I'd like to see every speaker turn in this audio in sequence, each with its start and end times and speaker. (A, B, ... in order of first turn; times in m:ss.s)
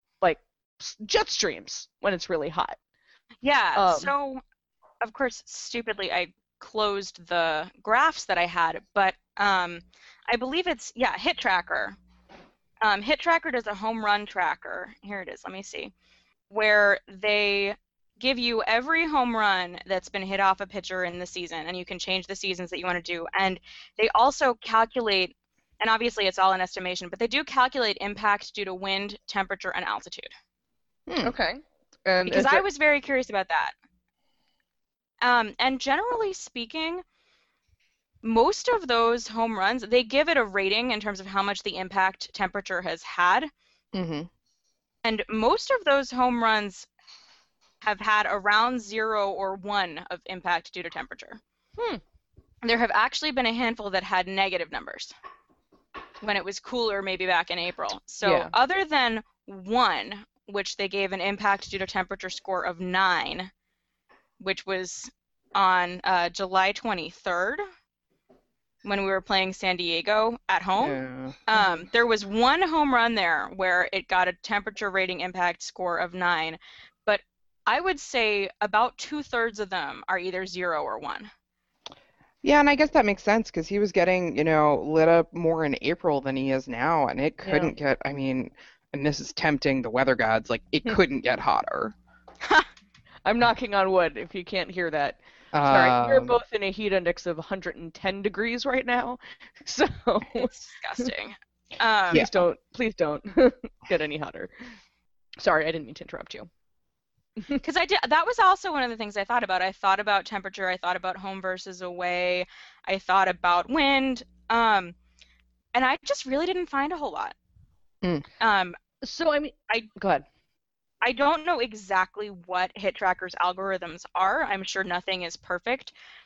0:00.2-0:02.8 A
0:03.4-0:04.4 B
0:03.8-0:04.1 A
0:05.0-0:12.0 B
0:12.8-0:15.9 B
0:16.5-0:30.3 B
0:31.1-0:31.3 C
0:31.2-0:32.6 A
0:32.3-0:33.7 B
0:35.2-0:37.0 B
0:38.2-0:43.5 B
0:43.9-0:44.3 C
0:45.0-0:46.9 B
0:47.8-0:51.4 B
0:52.6-0:55.2 B
0:56.2-1:03.5 B
0:58.2-0:58.5 A
1:04.4-1:07.6 B
1:08.8-1:21.3 B
1:10.8-1:11.4 C
1:22.4-1:32.0 C
1:27.4-1:27.8 A
1:33.2-1:41.1 A
1:35.5-1:36.4 C
1:40.3-1:42.3 B
1:42.1-1:44.5 A
1:45.4-1:46.5 A
1:47.6-1:55.0 B
1:55.7-1:57.4 B
1:58.4-1:58.8 B
1:59.0-2:00.3 A
2:01.0-2:05.9 B